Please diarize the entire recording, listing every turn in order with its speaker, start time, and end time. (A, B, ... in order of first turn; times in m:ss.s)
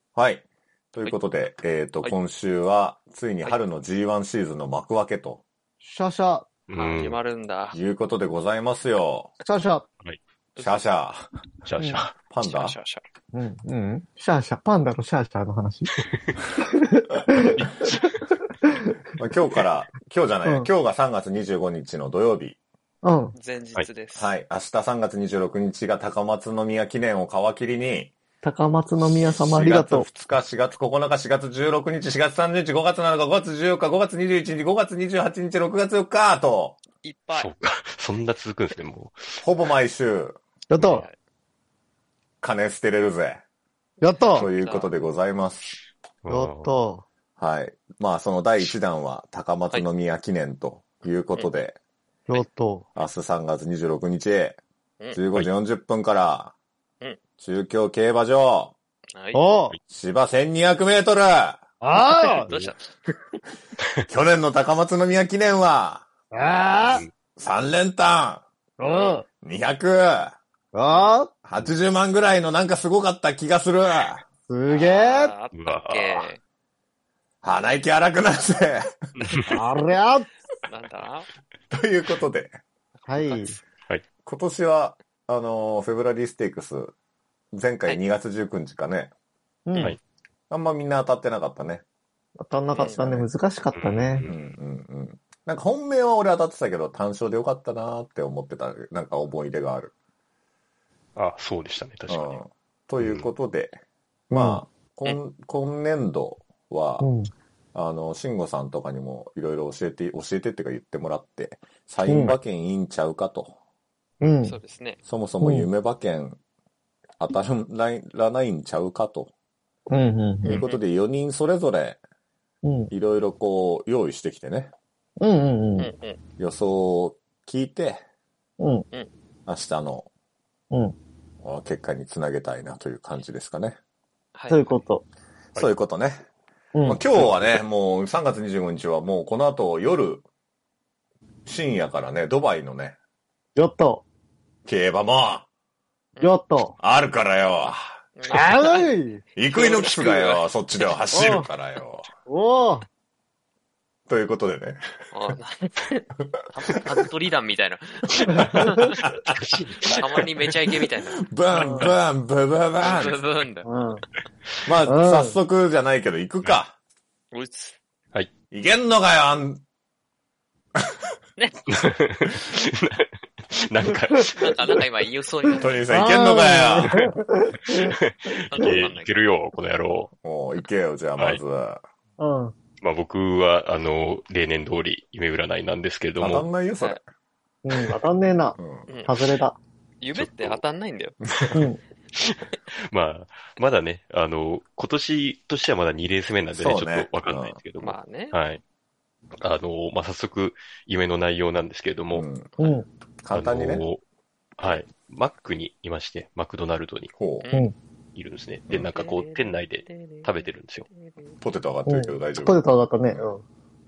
0:00.2-0:05.4 A
0:05.8-0:06.5 B
0:06.7-0:07.2 C
0:06.8-0:07.8 D
0:07.7-0:09.3 A
0:09.4-0:09.9 B
0:10.6-0:10.8 D
0:10.6-0:11.3 A
0:11.6-0:12.2 C
0:12.3-0:12.8 A
0:12.4-0:13.0 D
0:13.3-0:17.7 B
0:17.6-0:18.2 C
0:19.2-0:22.6 A
0:23.0-0:23.4 B
0:23.4-0:24.3 D
0:24.2-0:28.1 A
0:28.4-0:30.1 B
0:29.0-0:36.8 A
0:37.0-0:37.5 D
0:37.4-0:39.4 C
0:39.4-0:40.4 A
0:40.7-0:41.1 B
0:40.8-0:41.1 D
0:42.4-0:43.4 A
0:44.0-0:44.5 B
0:44.2-0:44.9 D
0:44.3-0:45.8 A
0:46.2-0:46.7 C
0:46.3-0:47.0 B
0:47.4-0:51.8 A
0:52.3-0:52.8 B
0:53.0-0:54.6 A
0:55.1-0:56.5 A
0:57.4-0:58.7 A
0:59.2-0:59.4 D
0:59.3-0:59.8 B
0:59.9-1:01.6 A
1:01.8-1:02.5 B
1:02.0-1:03.3 D
1:04.1-1:06.1 A
1:06.3-1:07.0 B
1:06.8-1:07.1 C
1:07.4-1:08.4 A
1:08.8-1:09.3 B
1:08.8-1:09.2 D
1:09.4-1:10.4 A
1:10.7-1:11.3 B
1:10.9-1:11.1 D
1:11.4-1:14.2 A
1:14.5-1:15.3 B
1:14.7-1:16.4 D
1:15.5-1:16.3 C
1:17.4-1:18.9 A
1:19.2-1:19.5 C
1:19.5-1:20.3 B
1:20.6-1:21.3 D
1:21.7-1:22.6 A
1:23.0-1:23.6 D
1:23.1-1:23.6 B
1:24.2-1:26.9 A
1:27.5-1:29.1 A
1:29.7-1:30.0 B
1:30.5-1:31.8 A
1:32.4-1:34.3 B
1:32.7-1:33.0 D
1:32.9-1:33.3 A
1:33.7-1:34.4 C
1:34.3-1:39.9 A
1:41.2-1:42.4 C
1:42.1-1:47.1 A
1:43.0-1:43.3 C
1:44.3-1:44.6 B
1:47.0-1:47.3 B
1:47.7-1:53.6 A
1:52.1-1:52.4 B
1:54.2-1:54.6 B
1:54.3-1:55.0 D
1:55.1-1:56.4 A
1:55.4-1:55.7 B
1:57.2-1:59.3 A
1:59.9-2:00.6 B
2:00.4-2:00.8 D
2:00.5-2:02.0 A
2:02.6-2:02.9 B
2:02.9-2:04.7 A
2:05.2-2:05.9 B
2:05.8-2:06.2 D
2:06.4-2:08.0 A
2:08.6-2:08.8 B
2:09.5-2:10.1 A
2:10.7-2:11.0 B
2:11.4-2:13.8 A
2:14.4-2:14.8 D
2:14.5-2:15.0 B
2:15.6-2:16.2 A
2:16.8-2:17.0 B
2:16.8-2:20.2 A
2:21.5-2:23.0 A
2:23.6-2:24.0 B
2:24.7-2:25.5 A
2:26.2-2:26.8 B
2:26.8-2:28.0 A
2:28.2-2:28.9 D
2:28.3-2:29.2 B
2:29.4-2:32.1 A
2:29.5-2:31.0 D
2:31.1-2:31.5 B
2:32.3-2:32.9 B
2:34.1-2:35.3 A
2:35.1-2:39.0 D
2:36.3-2:37.0 A
2:38.4-2:39.9 A
2:39.4-2:40.4 C
2:39.8-2:41.2 D
2:41.0-2:43.2 A
2:41.6-2:41.9 B
2:42.8-2:43.7 D
2:43.6-2:44.0 B
2:44.6-2:46.8 A
2:44.9-2:45.4 B
2:47.3-2:47.8 D
2:48.5-2:49.6 A
2:51.7-2:54.8 C
2:54.4-2:55.9 D
2:55.6-2:57.1 A
2:55.9-2:58.0 B
2:57.7-3:00.1 C
2:58.5-2:59.2 D
3:00.2-3:01.8 A
3:02.2-3:02.6 B
3:02.8-3:06.5 C
3:06.2-3:07.0 A
3:07.6-3:09.6 B
3:08.6-3:08.9 A
3:08.9-3:09.2 D
3:10.0-3:11.6 D
3:10.2-3:10.6 C
3:11.5-3:11.8 B
3:12.2-3:18.6 C
3:16.5-3:17.6 A
3:17.8-3:18.4 D
3:19.4-3:22.3 C
3:22.1-3:22.5 A
3:22.6-3:22.9 B
3:23.2-3:23.9 A
3:23.3-3:24.0 C
3:24.6-3:27.1 C
3:27.2-3:27.5 A
3:27.4-3:27.7 D
3:28.2-3:30.9 C
3:29.0-3:31.4 D
3:31.4-3:33.2 A
3:31.9-3:33.4 B